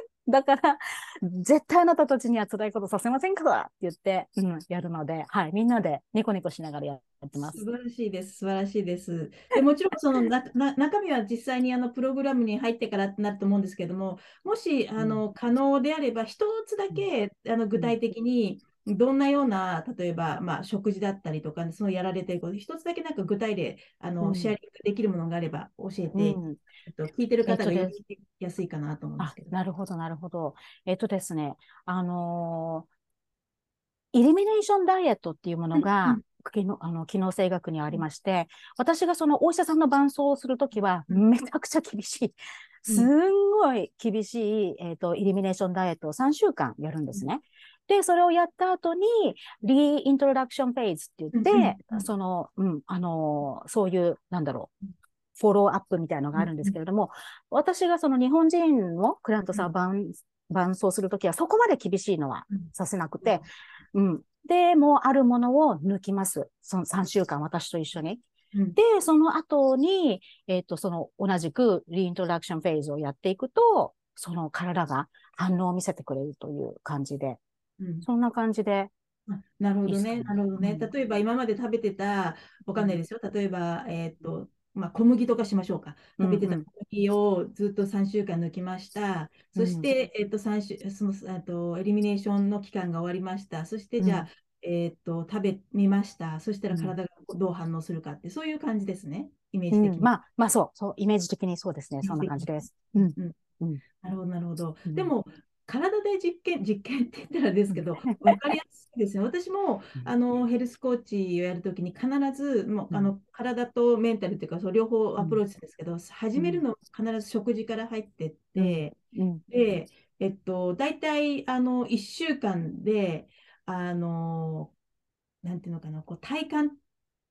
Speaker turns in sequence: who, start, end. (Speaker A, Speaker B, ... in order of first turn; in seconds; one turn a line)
Speaker A: 0.2-7.6
Speaker B: 7.4-29.5
Speaker A: 15.0-15.2
Speaker A: 24.2-24.6
Speaker A: 26.1-26.6
Speaker A: 27.5-28.0
Speaker A: 29.2-32.9
Speaker A: 34.1-54.7
Speaker B: 35.8-36.2
Speaker B: 51.3-52.0
Speaker A: 55.4-68.2
Speaker B: 56.4-56.8
Speaker A: 68.8-77.4
Speaker B: 77.8-78.1
Speaker A: 78.0-78.9
Speaker B: 79.3-100.1
Speaker A: 79.9-80.9
Speaker A: 82.7-83.0
Speaker A: 86.2-86.7
Speaker A: 89.6-89.9
Speaker A: 94.0-94.3
Speaker A: 96.7-97.0
Speaker A: 99.7-103.8
Speaker B: 102.0-103.4
Speaker B: 104.0-119.0
Speaker A: 104.9-105.1
Speaker A: 107.7-108.6
Speaker A: 116.3-116.6
Speaker A: 118.6-119.4
Speaker B: 119.5-124.7
Speaker B: 125.4-126.8